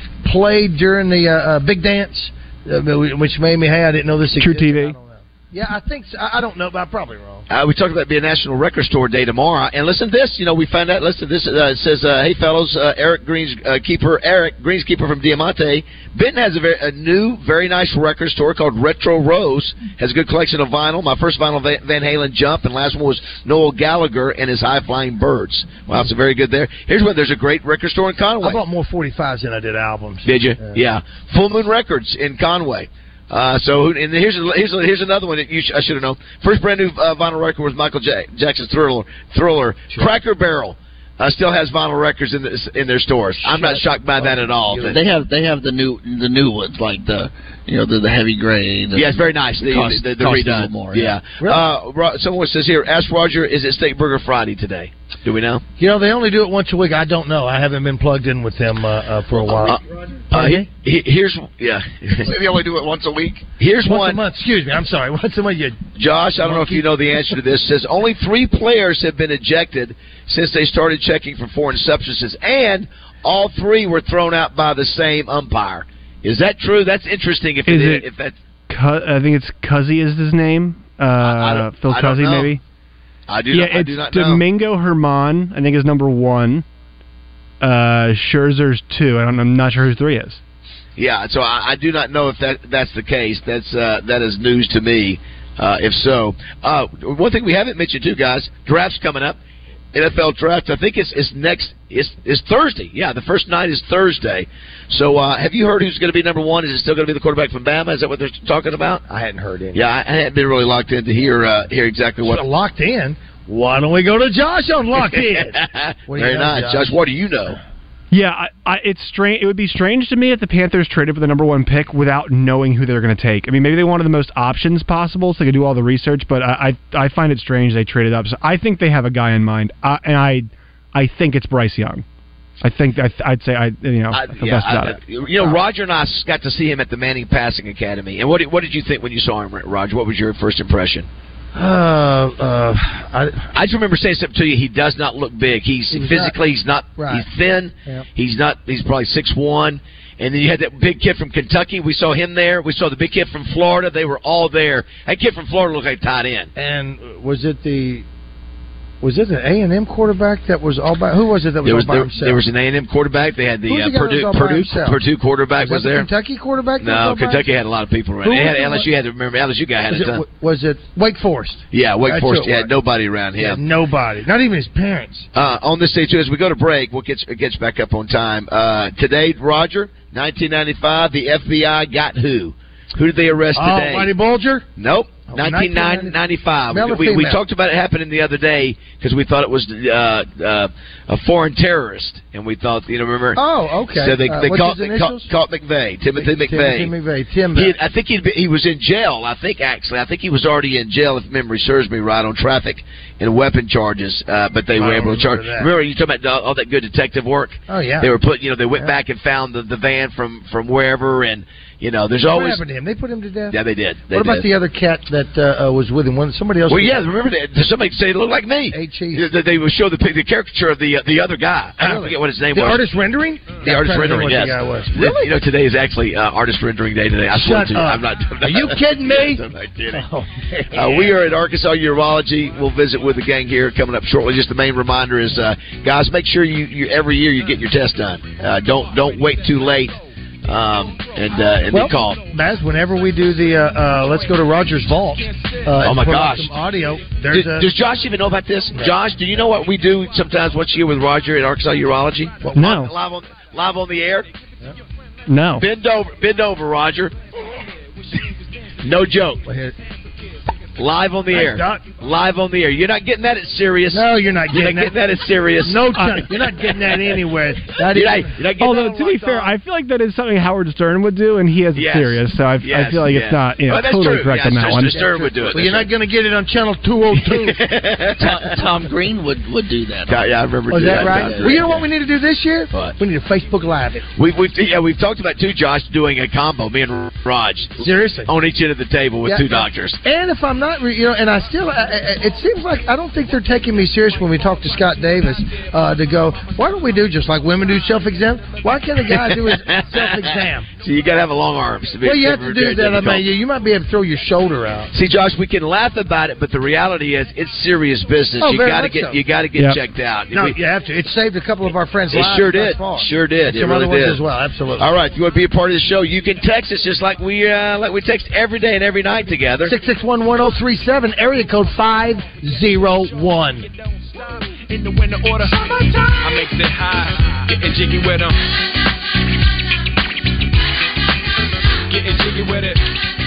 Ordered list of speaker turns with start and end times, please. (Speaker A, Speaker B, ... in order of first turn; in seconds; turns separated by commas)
Speaker A: 0.2-7.5, Speaker B: 4.4-5.0, Speaker C: 7.5-28.6, Speaker A: 28.4-30.8, Speaker C: 30.2-45.0, Speaker A: 43.5-45.0, Speaker D: 44.8-51.2, Speaker C: 49.0-55.6, Speaker A: 51.4-51.6, Speaker A: 55.8-59.8, Speaker C: 59.5-59.8, Speaker C: 60.3-62.4, Speaker A: 60.3-60.7, Speaker D: 62.3-63.4, Speaker C: 63.6-64.2, Speaker A: 63.8-65.8, Speaker C: 66.0-78.4, Speaker A: 66.4-67.2, Speaker B: 77.7-78.1, Speaker B: 78.7-82.6, Speaker C: 81.2-82.5, Speaker C: 83.3-84.4, Speaker B: 83.5-86.6, Speaker B: 87.6-90.4, Speaker C: 91.0-99.4, Speaker C: 99.9-109.0, Speaker A: 109.1-109.8, Speaker C: 109.7-112.5, Speaker A: 112.2-117.0, Speaker C: 115.1-117.6, Speaker B: 118.1-132.0, Speaker B: 132.6-135.5, Speaker C: 134.1-141.1, Speaker A: 141.5-143.5, Speaker C: 143.5-156.5, Speaker A: 145.9-146.4, Speaker A: 147.0-147.3, Speaker A: 156.6-158.1, Speaker A: 159.0-162.4, Speaker C: 161.6-166.1, Speaker A: 163.7-165.0, Speaker A: 165.6-167.5, Speaker C: 166.8-170.2, Speaker A: 168.2-168.9, Speaker A: 169.9-172.7, Speaker C: 171.7-173.6, Speaker A: 173.4-175.3, Speaker C: 175.3-184.1, Speaker A: 183.6-184.7, Speaker C: 184.8-193.4, Speaker A: 185.3-186.2, Speaker A: 186.7-187.4, Speaker A: 193.4-195.3, Speaker C: 193.9-196.9, Speaker A: 196.2-197.8, Speaker C: 197.5-212.6, Speaker A: 204.8-205.7, Speaker A: 207.7-208.1, Speaker A: 212.2-213.6, Speaker C: 213.5-214.5, Speaker A: 214.1-217.1, Speaker C: 216.7-222.9, Speaker A: 218.7-219.3, Speaker A: 221.8-225.3, Speaker C: 223.6-230.1, Speaker A: 227.3-229.4, Speaker A: 229.9-231.2, Speaker C: 230.7-242.2, Speaker A: 241.7-247.7, Speaker C: 245.8-246.5, Speaker C: 247.3-254.3, Speaker A: 248.7-249.0, Speaker A: 252.4-252.7, Speaker B: 252.5-252.9, Speaker B: 255.3-255.7, Speaker C: 255.6-257.1, Speaker C: 258.8-259.4, Speaker A: 259.4-259.8, Speaker C: 260.8-266.2, Speaker A: 261.3-261.9, Speaker A: 263.9-264.9, Speaker A: 265.6-268.4, Speaker B: 265.9-266.3, Speaker C: 267.9-269.5, Speaker B: 268.6-275.5, Speaker C: 271.8-275.9, Speaker A: 274.9-277.7, Speaker C: 277.1-278.6, Speaker D: 278.1-281.8, Speaker C: 280.1-281.9, Speaker A: 280.7-284.1, Speaker C: 284.2-290.0, Speaker A: 287.8-288.3, Speaker A: 289.2-300.7, Speaker C: 299.1-303.3, Speaker A: 302.0-304.9, Speaker C: 304.9-310.6, Speaker A: 308.4-309.2, Speaker A: 310.3-314.9, Speaker C: 312.1-314.2, Speaker C: 314.8-319.8, Speaker A: 319.6-323.7, Speaker E: 324.6-328.4, Speaker E: 331.9-332.8